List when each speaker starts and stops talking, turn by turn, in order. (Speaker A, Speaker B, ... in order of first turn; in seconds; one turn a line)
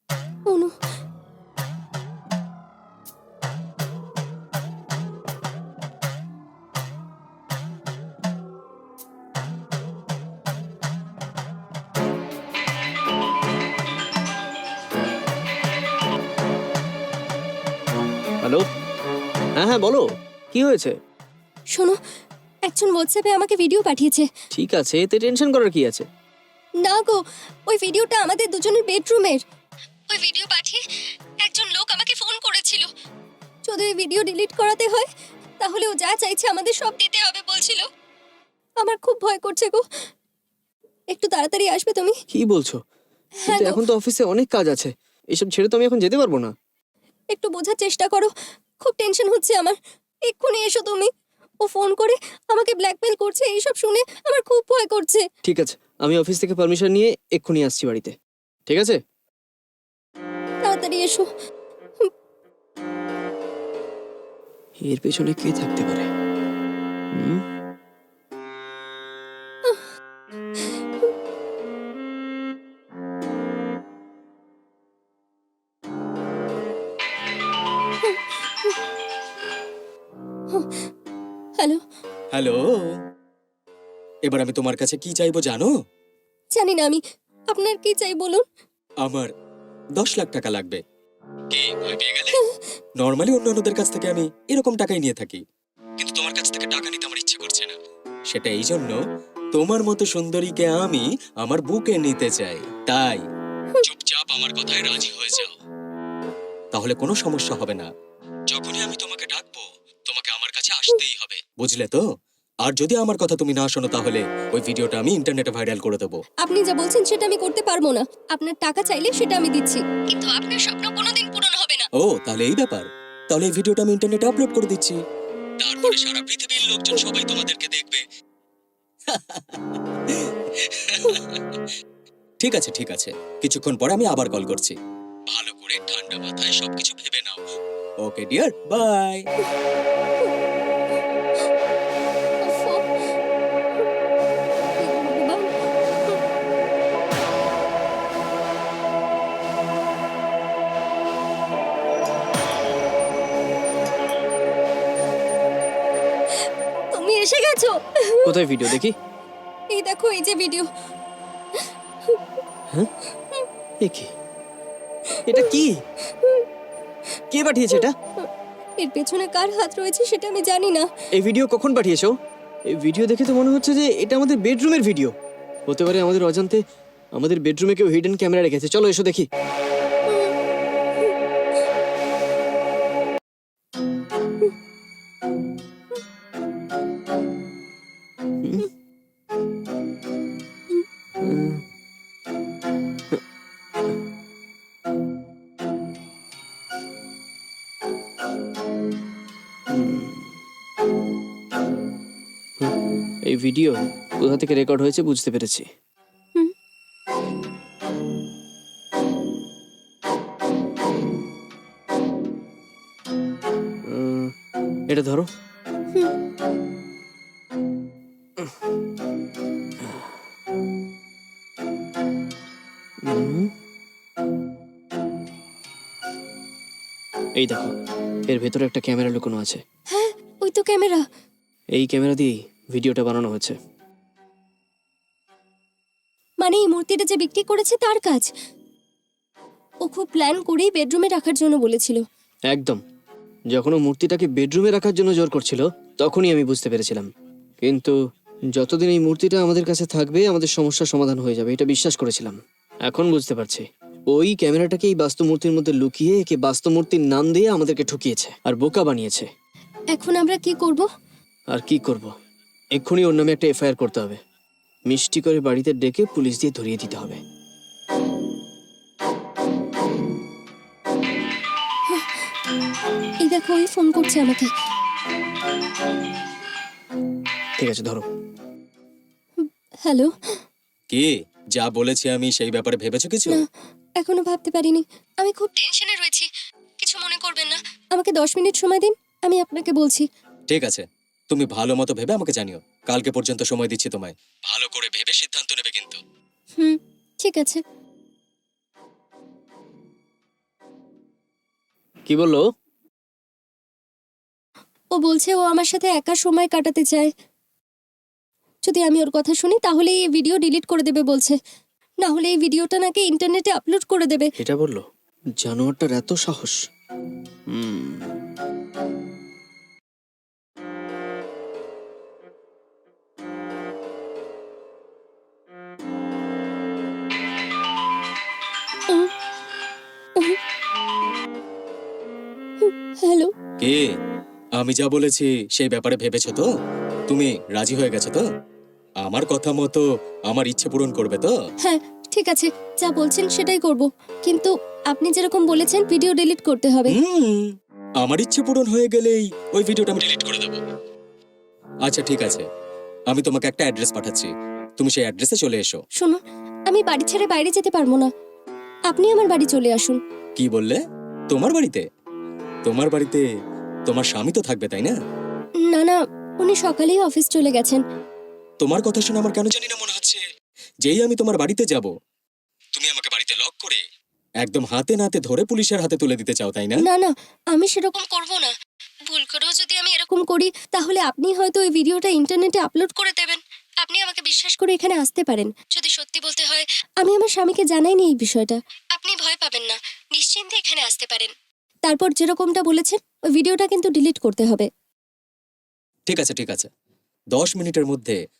Speaker A: 0.5-0.8
Speaker B: 19.6-20.9
Speaker A: 21.7-22.0
Speaker A: 22.7-24.3
Speaker B: 24.5-26.1
Speaker A: 26.8-29.4
Speaker A: 30.1-30.8
Speaker A: 31.4-32.9
Speaker A: 33.7-35.1
Speaker A: 35.6-37.9
Speaker A: 38.8-39.8
Speaker A: 41.1-42.1
Speaker B: 42.3-42.8
Speaker A: 43.4-43.8
Speaker B: 43.5-46.5
Speaker A: 47.3-49.8
Speaker A: 50.3-51.1
Speaker A: 51.6-55.2
Speaker B: 55.4-58.1
Speaker B: 58.7-59.0
Speaker A: 60.6-61.3
Speaker B: 64.8-66.1
Speaker B: 67.2-67.4
Speaker A: 70.6-71.1
Speaker A: 78.0-78.8
Speaker A: 80.5-80.8
Speaker C: 82.3-82.8
Speaker C: 84.3-85.7
Speaker A: 86.6-88.4
Speaker C: 89.0-89.3
Speaker C: 90.0-90.8
Speaker C: 91.5-92.4
Speaker C: 93.0-95.4
Speaker C: 96.0-97.8
Speaker C: 98.3-99.0
Speaker C: 99.5-103.2
Speaker C: 103.8-105.5
Speaker C: 106.7-107.9
Speaker C: 108.5-112.0
Speaker C: 112.6-116.2
Speaker A: 116.4-121.9
Speaker C: 122.0-125.0
Speaker C: 125.6-128.1
Speaker C: 129.1-131.4
Speaker C: 132.4-134.8
Speaker C: 135.3-137.4
Speaker C: 138.1-139.2
Speaker A: 142.4-142.8
Speaker A: 144.8-145.5
Speaker A: 156.9-158.7
Speaker B: 158.2-158.9
Speaker A: 159.7-160.7
Speaker A: 161.6-162.2
Speaker B: 163.8-164.1
Speaker A: 165.1-166.5
Speaker B: 165.3-165.8
Speaker B: 167.3-167.9
Speaker A: 167.7-168.3
Speaker A: 168.8-170.9
Speaker B: 171.2-172.1
Speaker B: 172.7-175.1
Speaker B: 175.7-176.6
Speaker B: 177.2-179.3
Speaker A: 180.1-180.3
Speaker B: 191.2-191.6
Speaker B: 199.7-200.3
Speaker B: 203.3-205.7
Speaker B: 213.9-214.3
Speaker B: 214.9-215.3
Speaker B: 223.1-223.5
Speaker B: 227.4-227.7
Speaker B: 228.3-229.6
Speaker A: 229.9-231.0
Speaker B: 231.8-233.6
Speaker A: 236.4-238.3
Speaker A: 239.8-242.0
Speaker B: 242.5-242.8
Speaker B: 243.5-247.1
Speaker B: 247.6-248.0
Speaker B: 248.5-259.3
Speaker A: 259.9-260.9
Speaker B: 261.5-262.1
Speaker B: 262.8-264.2
Speaker B: 264.9-267.2
Speaker A: 271.9-272.2
Speaker A: 273.2-274.5
Speaker B: 277.6-278.1
Speaker A: 279.4-280.1
Speaker C: 280.9-283.4
Speaker A: 284.0-286.3
Speaker A: 286.8-290.1
Speaker C: 290.5-296.0
Speaker A: 296.6-297.6
Speaker B: 302.1-302.4
Speaker A: 304.9-307.1
Speaker A: 308.6-311.4
Speaker A: 312.0-314.3
Speaker B: 314.4-314.9
Speaker B: 315.4-316.6
Speaker B: 317.5-318.2
Speaker A: 332.6-333.3
Speaker C: 334.6-336.5
Speaker C: 337.1-338.2
Speaker C: 339.0-341.3
Speaker A: 341.6-347.0
Speaker C: 346.9-350.6
Speaker C: 351.9-352.4
Speaker C: 353.1-355.8
Speaker A: 356.0-358.1
Speaker A: 358.9-360.0
Speaker C: 360.4-360.8
Speaker C: 361.3-361.8
Speaker C: 362.6-363.3
Speaker C: 363.9-364.9
Speaker A: 365.7-367.8
Speaker C: 368.6-370.2
Speaker C: 370.8-371.9
Speaker C: 372.8-373.8
Speaker C: 374.4-376.9
Speaker A: 376.8-378.5
Speaker A: 379.1-391.3
Speaker A: 391.9-394.7
Speaker C: 396.1-396.7
Speaker C: 397.3-398.2